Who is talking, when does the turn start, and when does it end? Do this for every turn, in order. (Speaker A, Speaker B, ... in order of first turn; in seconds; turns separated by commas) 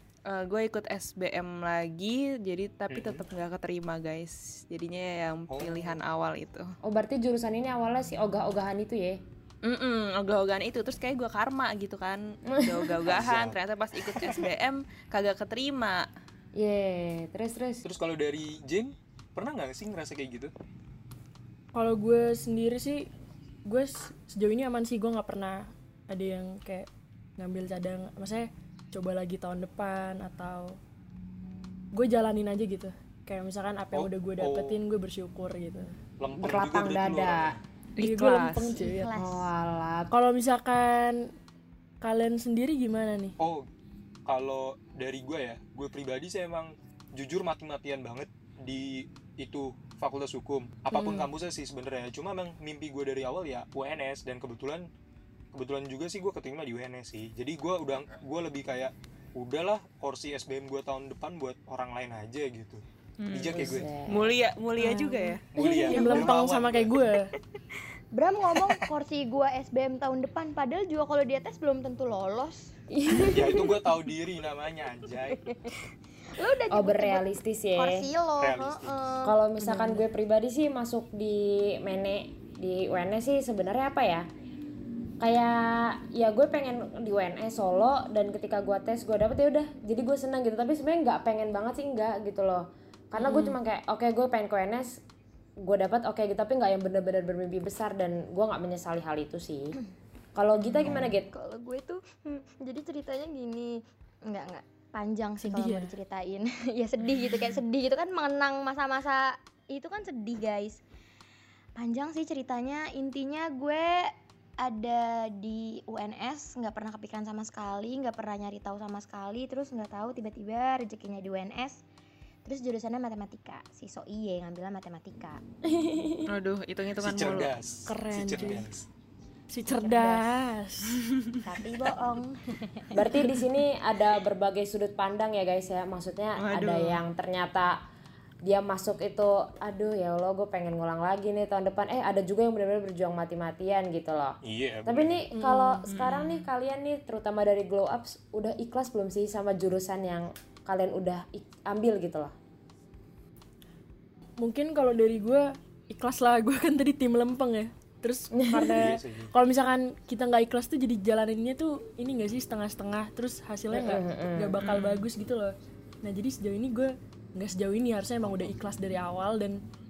Speaker A: 0.3-6.8, Speaker B: 2.9-3.2, Speaker B: 5.5-6.0, Speaker C: 6.8-9.2, Speaker A: 9.6-16.1, Speaker C: 12.5-12.9, Speaker B: 13.1-13.6, Speaker C: 16.6-17.9, Speaker B: 17.9-20.5, Speaker D: 21.8-23.1, Speaker D: 23.7-30.8, Speaker D: 31.9-36.0, Speaker B: 33.9-34.8, Speaker B: 36.2-37.6, Speaker C: 36.4-37.6, Speaker A: 38.0-38.7, Speaker D: 38.0-39.1, Speaker E: 38.4-39.5, Speaker C: 39.1-40.1, Speaker D: 40.1-41.3, Speaker D: 42.0-43.4, Speaker B: 43.4-43.7, Speaker B: 44.3-54.9, Speaker D: 50.9-51.3, Speaker B: 55.5-63.9, Speaker A: 63.2-65.5, Speaker C: 63.5-64.3, Speaker D: 64.8-67.3, Speaker B: 65.5-67.0, Speaker E: 65.6-66.3, Speaker E: 68.1-72.7, Speaker B: 68.6-68.9, Speaker C: 72.9-73.8, Speaker B: 73.3-75.5, Speaker E: 75.3-75.8, Speaker E: 76.3-79.4, Speaker C: 76.7-78.0, Speaker B: 78.4-79.0, Speaker C: 79.2-84.3, Speaker D: 79.7-80.0, Speaker C: 85.2-95.0, Speaker A: 93.2-93.5, Speaker C: 95.6-99.8, Speaker C: 100.4-101.3, Speaker E: 100.8-110.8, Speaker D: 105.4-105.9, Speaker E: 111.8-121.8, Speaker E: 122.5-125.4, Speaker D: 125.7-126.3, Speaker A: 126.3-127.5, Speaker B: 127.0-128.8, Speaker D: 127.9-128.7, Speaker D: 129.5-131.0, Speaker C: 129.8-130.2, Speaker E: 131.4-133.0, Speaker C: 132.9-137.8, Speaker A: 136.4-137.0, Speaker C: 138.4-152.3, Speaker B: 144.4-145.2, Speaker D: 145.3-145.8, Speaker A: 145.9-146.5, Speaker D: 154.4-169.6, Speaker B: 158.8-159.3, Speaker C: 163.7-164.6, Speaker A: 164.6-165.1